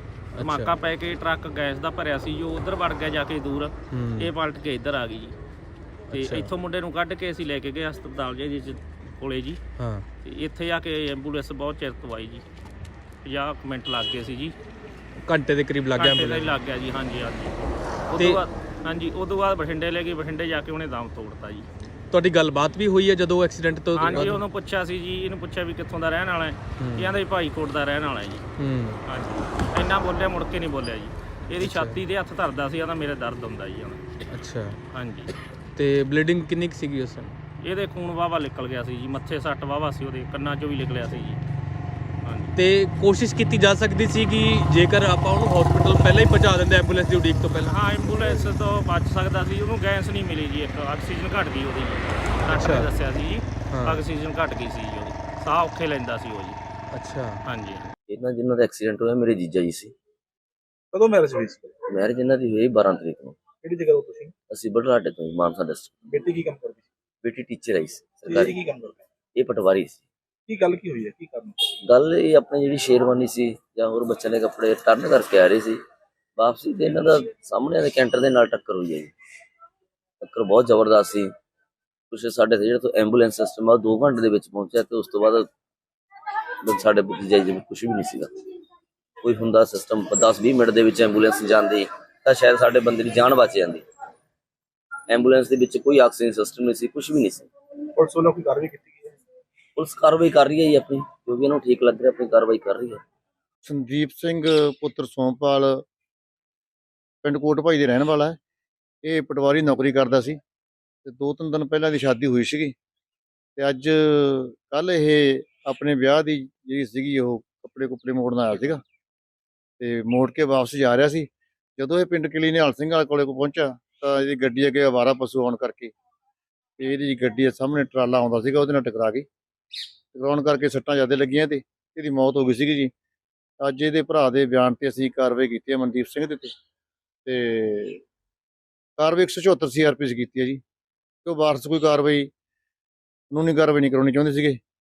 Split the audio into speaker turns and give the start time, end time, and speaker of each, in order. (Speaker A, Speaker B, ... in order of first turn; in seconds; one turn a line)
Speaker A: 0.3-0.7
Speaker B: 0.4-5.3
Speaker A: 3.9-4.3
Speaker A: 6.1-6.5
Speaker B: 6.1-9.6
Speaker A: 9.8-10.0
Speaker B: 10.2-12.4
Speaker B: 13.2-14.5
Speaker A: 15.2-16.5
Speaker B: 15.9-21.6
Speaker A: 18.1-18.4
Speaker A: 22.1-24.4
Speaker B: 23.9-28.4
Speaker A: 26.8-27.1
Speaker A: 28.6-29.0
Speaker B: 29.1-34.0
Speaker A: 31.6-32.0
Speaker A: 34.3-34.8
Speaker B: 34.9-35.3
Speaker A: 35.8-37.3
Speaker B: 37.6-41.4
Speaker B: 42.2-42.5
Speaker A: 42.6-47.8
Speaker B: 47.7-56.6
Speaker A: 52.5-52.9
Speaker A: 53.7-54.0
Speaker A: 56.9-57.4
Speaker B: 57.5-57.9
Speaker C: 58.1-59.9
Speaker D: 60.9-61.7
Speaker C: 61.9-63.4
Speaker D: 63.6-64.3
Speaker C: 64.5-66.2
Speaker D: 66.1-66.8
Speaker C: 67.2-68.6
Speaker D: 68.3-68.9
Speaker C: 69.3-70.0
Speaker D: 70.5-71.5
Speaker C: 71.8-75.8
Speaker C: 76.4-79.1
Speaker C: 80.2-81.3
Speaker C: 82.1-85.5
Speaker C: 86.6-88.3
Speaker C: 89.2-93.8
Speaker C: 95.1-97.5
Speaker D: 98.0-99.1
Speaker C: 99.8-103.0
Speaker E: 103.6-105.8
Speaker E: 107.2-108.4
Speaker E: 109.0-110.4
Speaker E: 111.0-112.7
Speaker E: 113.6-118.8
Speaker E: 119.8-125.9
Speaker E: 126.8-129.3
Speaker E: 130.1-132.9
Speaker E: 133.6-136.5
Speaker E: 137.2-138.0
Speaker E: 139.0-140.6
Speaker E: 141.2-142.3
Speaker E: 143.3-144.6